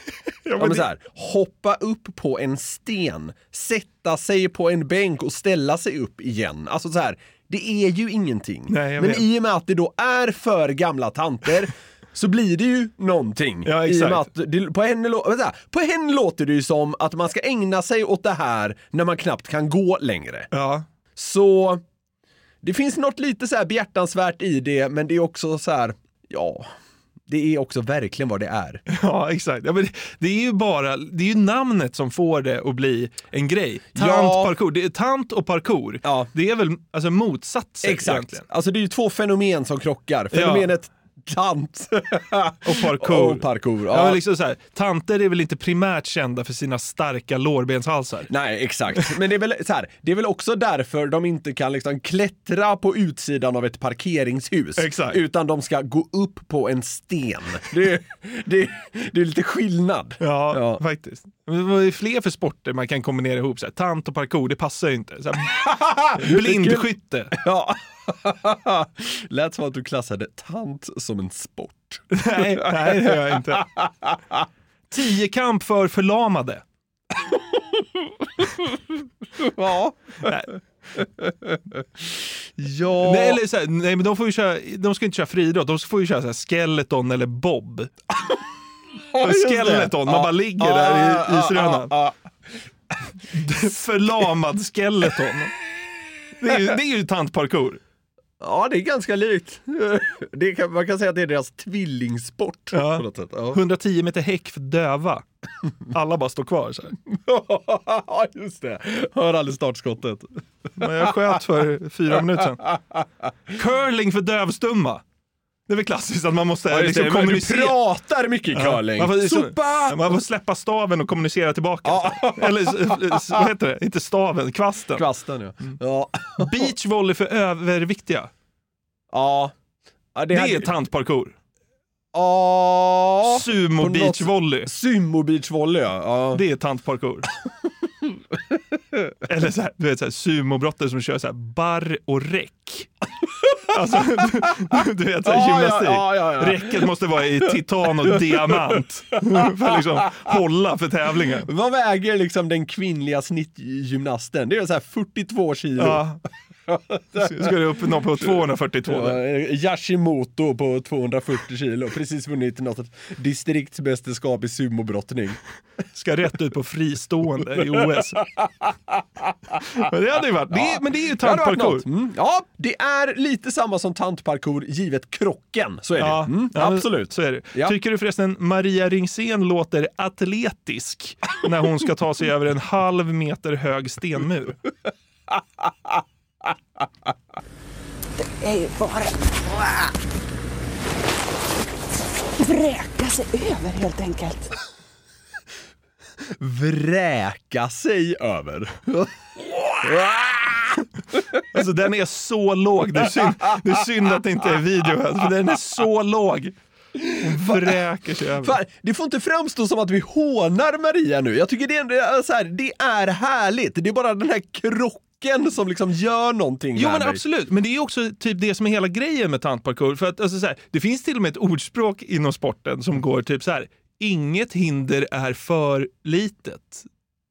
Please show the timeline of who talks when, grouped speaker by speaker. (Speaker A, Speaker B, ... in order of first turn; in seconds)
Speaker A: 0.4-0.8, 8.7-9.2, 13.7-14.2, 20.5-20.8, 28.9-38.4, 40.3-40.7, 42.6-48.3, 54.8-55.2, 60.2-65.6, 66.2-67.3, 72.1-73.6, 74.9-76.6, 80.2-80.5, 83.0-87.9, 89.2-91.9, 93.3-95.5, 96.4-97.8, 102.7-105.2, 105.9-106.9, 110.8-112.7, 113.5-115.0, 115.7-117.8, 118.5-125.0, 126.4-128.3, 130.3-131.3, 133.2-134.7, 136.3-137.3, 139.3-142.9, 143.7-151.5, 155.8-156.2, 157.2-159.2, 165.9-168.2, 169.7-171.8, 176.0-184.6, 201.5-206.5, 207.2-208.6, 216.8-226.8
Speaker B: 0.6-20.5, 21.1-21.8, 22.6-26.7, 27.3-28.8, 33.9-34.5, 36.0-36.3, 37.8-44.2, 48.3-60.8, 65.6-74.4, 78.4-78.7, 79.4-80.3, 81.0-83.4, 89.1-92.1, 98.4-103.6, 107.1-110.3, 112.7-113.0, 116.7-120.2, 121.8-123.4, 124.9-126.7, 129.1-129.5, 130.1-130.7, 132.1-136.4, 145.2-148.8, 151.4-156.0, 156.7-157.5, 158.2-165.4, 168.4-168.9, 170.5-177.8, 196.4-199.1, 199.6-200.8, 206.9-207.8, 208.4-217.2
Speaker C: 188.2-189.9, 192.4-194.5